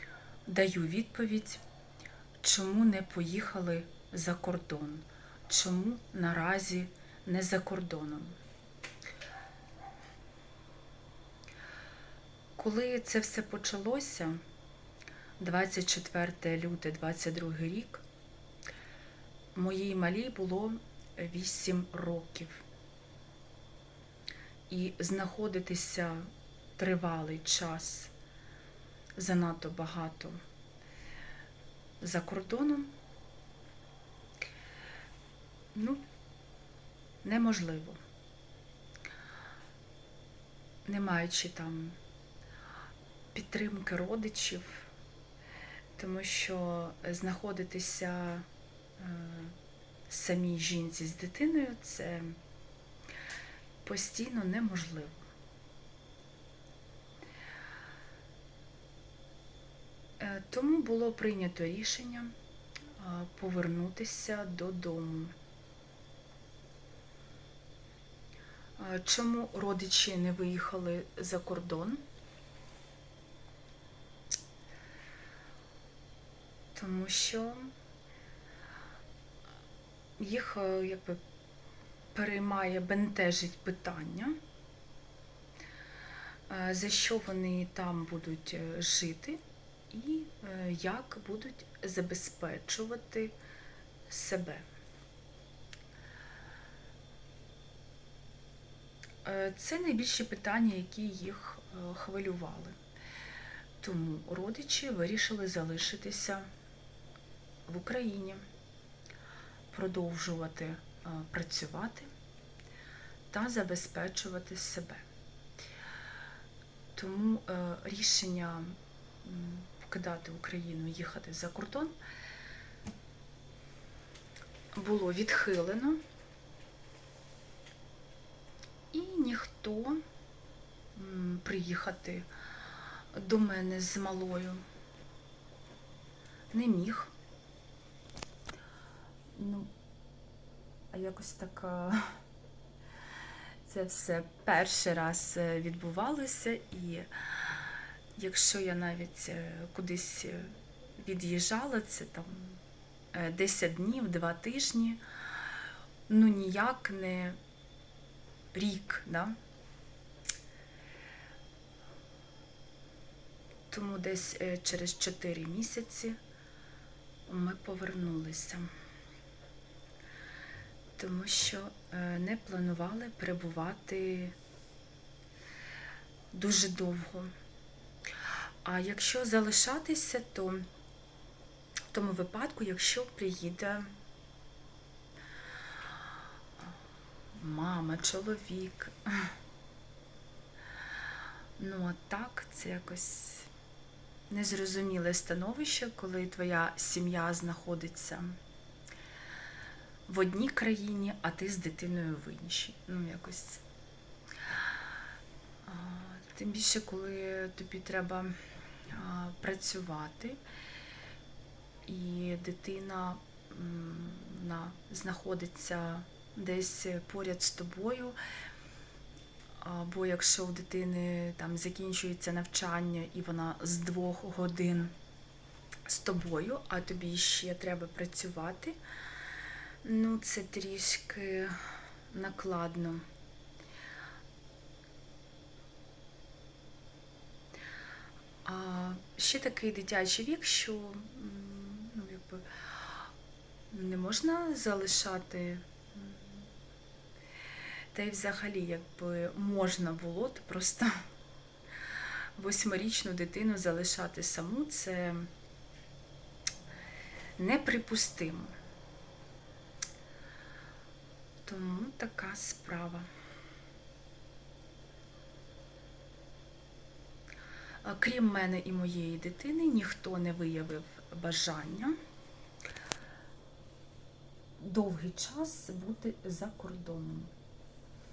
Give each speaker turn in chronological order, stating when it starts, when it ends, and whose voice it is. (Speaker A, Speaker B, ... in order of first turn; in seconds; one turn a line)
Speaker A: 0.5-1.6
Speaker A: 2.4-8.4
Speaker A: 12.6-14.4
Speaker A: 15.4-18.0
Speaker A: 19.6-22.6
Speaker A: 24.7-28.1
Speaker A: 29.2-30.4
Speaker A: 32.0-32.9
Speaker A: 35.7-36.0
Speaker A: 37.2-38.0
Speaker A: 40.9-42.0
Speaker A: 43.3-44.9
Speaker A: 46.0-48.5
Speaker A: 49.0-49.5
Speaker A: 50.1-52.4
Speaker A: 53.8-55.2
Speaker A: 60.2-62.3
Speaker A: 63.0-65.3
Speaker A: 68.8-72.0
Speaker A: 76.8-77.7
Speaker A: 80.2-81.2
Speaker A: 82.2-84.4
Speaker A: 86.5-89.4
Speaker A: 89.9-93.3
Speaker A: 94.1-94.7
Speaker A: 99.2-102.8
Speaker A: 103.8-106.5
Speaker A: 107.7-108.4
Speaker A: 109.7-112.1
Speaker A: 113.3-115.0
Speaker A: 117.0-122.0
Speaker A: 124.8-126.0
Speaker A: 128.9-130.0
Speaker A: 130.9-132.3
Speaker A: 133.1-134.6
Speaker A: 136.5-137.1
Speaker A: 139.3-139.7
Speaker A: 140.9-142.2
Speaker A: 143.7-147.6
Speaker A: 148.2-152.6
Speaker A: 153.1-155.0
Speaker A: 156.1-157.4
Speaker A: 158.5-159.4
Speaker A: 163.7-166.2
Speaker A: 167.3-168.7
Speaker A: 171.0-174.3
Speaker A: 176.3-177.3
Speaker A: 178.6-180.6
Speaker A: 181.9-183.9
Speaker A: 187.3-189.3
Speaker A: 191.6-193.5
Speaker A: 194.3-198.4
Speaker A: 200.1-203.6
Speaker A: 205.7-208.3
Speaker A: 208.9-210.4
Speaker A: 211.9-218.2
Speaker A: 219.6-224.9
Speaker A: 225.9-228.8
Speaker A: 229.8-233.0
Speaker A: 238.4-243.1
Speaker A: 243.7-246.5
Speaker A: 247.9-251.0
Speaker A: 252.4-255.3
Speaker A: 257.4-258.6
Speaker A: 261.5-263.1
Speaker A: 267.8-271.9
Speaker A: 274.6-277.3